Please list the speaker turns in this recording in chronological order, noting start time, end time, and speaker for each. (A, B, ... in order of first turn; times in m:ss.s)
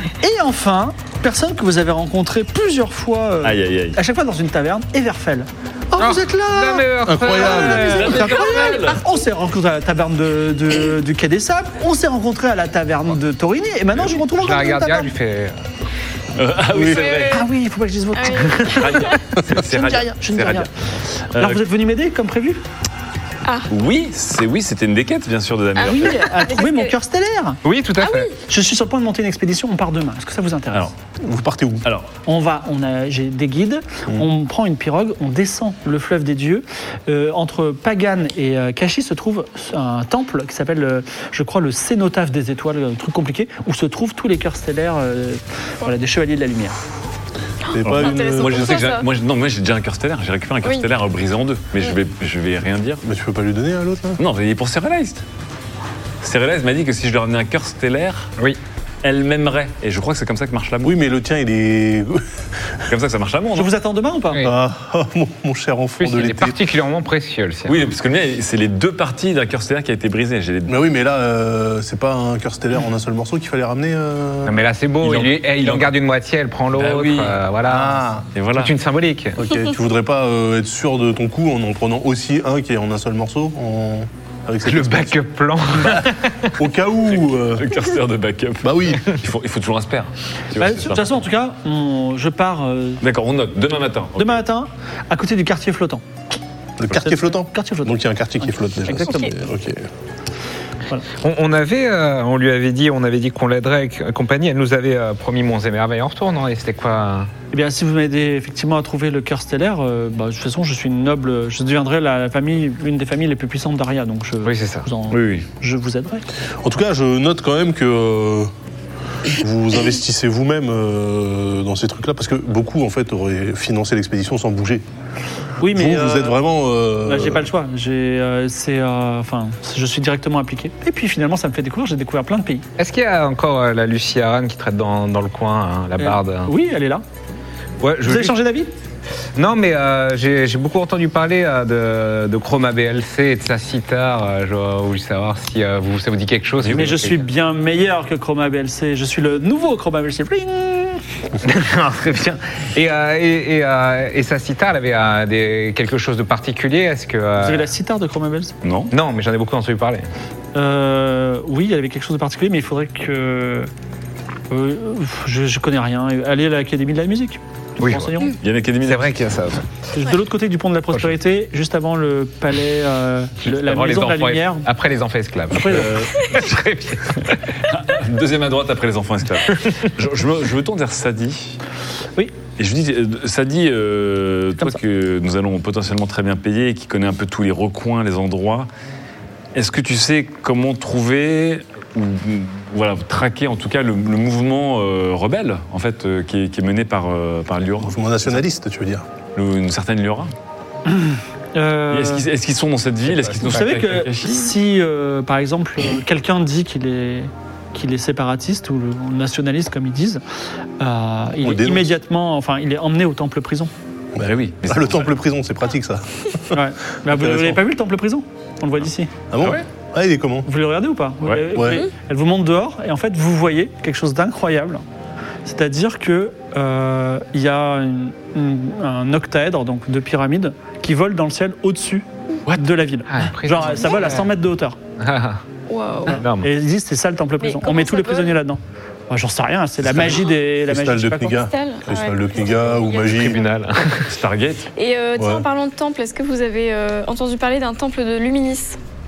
0:00.2-0:15.1 A
0:03.4-0:04.0 B
0:06.0-0:08.6 C
0:07.0-0:08.8 D
0:07.6-0:09.0 B
0:14.3-0:15.6 C
0:16.4-0:17.4 B
0:16.8-0:17.4 E
0:17.0-0:20.7 A
0:18.1-0:19.2 E
0:18.6-0:20.7 B
0:21.3-0:21.6 B
0:21.3-0:22.6 A
0:23.7-0:26.4 B
0:25.8-0:26.9 E
0:25.8-0:27.6 A
0:27.6-0:28.3 C
0:28.0-0:28.3 E
0:28.5-0:30.9 A
0:31.2-0:31.8 D
0:31.8-0:32.1 B
0:32.2-0:46.7 A
0:47.6-0:49.0 E
0:47.7-0:48.8 D
0:47.8-0:53.0 B
0:53.0-0:54.2 D
0:54.2-0:55.2 B
0:56.2-0:58.3 B
0:59.0-1:01.0 B
1:00.8-1:02.2 D
1:02.9-1:03.7 B
1:03.5-1:04.4 A
1:04.4-1:06.6 D
1:06.0-1:07.8 C
1:07.7-1:10.7 B
1:10.7-1:14.6 D
1:14.4-1:19.4 C
1:15.0-1:15.9 B
1:16.7-1:17.4 B
1:17.6-1:18.2 D
1:18.3-1:18.7 B
1:19.4-1:25.2 D
1:24.6-1:26.6 C
1:25.8-1:27.7 D
1:27.1-1:31.2 B
1:28.6-1:29.1 D
1:30.6-1:33.0 A
1:33.0-1:34.4 B
1:34.2-1:36.0 A
1:36.8-1:39.8 D
1:36.9-1:39.4 A
1:41.2-1:47.3 C
1:47.5-1:56.2 A
1:54.4-1:54.9 C
1:55.1-1:55.5 B
1:56.6-1:58.5 D
1:59.3-2:04.8 D
2:05.6-2:06.4 A
2:05.7-2:07.5 D
2:07.0-2:12.6 A
2:12.8-2:16.5 C
2:16.0-2:17.0 A
2:17.8-2:18.4 C
2:18.0-2:18.7 A
2:19.4-2:27.3 C
2:26.6-2:27.0 B
2:26.7-2:31.0 A
2:31.4-2:37.7 C
2:37.4-2:38.5 A
2:38.6-2:38.9 B
2:38.9-2:40.1 C
2:40.5-2:43.7 A
2:44.5-2:48.3 A
2:47.8-2:48.2 C
2:48.4-2:49.5 B
2:48.8-2:49.6 C
2:49.9-2:54.7 A
2:53.4-2:57.5 C
2:55.5-2:56.0 A
2:55.6-2:56.4 B
2:57.6-3:01.6 B
3:02.6-3:08.7 B
3:09.5-3:18.4 B
3:17.8-3:19.0 D
3:19.3-3:20.3 B
3:20.9-3:22.2 A
3:21.9-3:24.5 B
3:23.4-3:30.2 A
3:30.8-3:33.7 A
3:31.4-3:31.9 D
3:34.1-3:36.6 D
3:34.2-3:35.2 B
3:36.5-3:39.1 A
3:37.1-3:37.6 D
3:39.3-3:40.5 D
3:40.4-3:44.8 A
3:41.2-3:41.5 B
3:41.5-3:41.8 D
3:45.4-3:54.8 A
3:53.1-3:54.3 C
3:55.0-3:55.4 C
3:55.7-3:56.2 E
3:56.1-4:01.4 A
3:56.1-3:56.5 C
3:57.4-3:58.4 E
3:59.8-4:03.4 D
4:01.5-4:03.1 E
4:03.0-4:04.1 C
4:04.1-4:04.7 B
4:04.8-4:08.8 E
4:05.2-4:05.4 D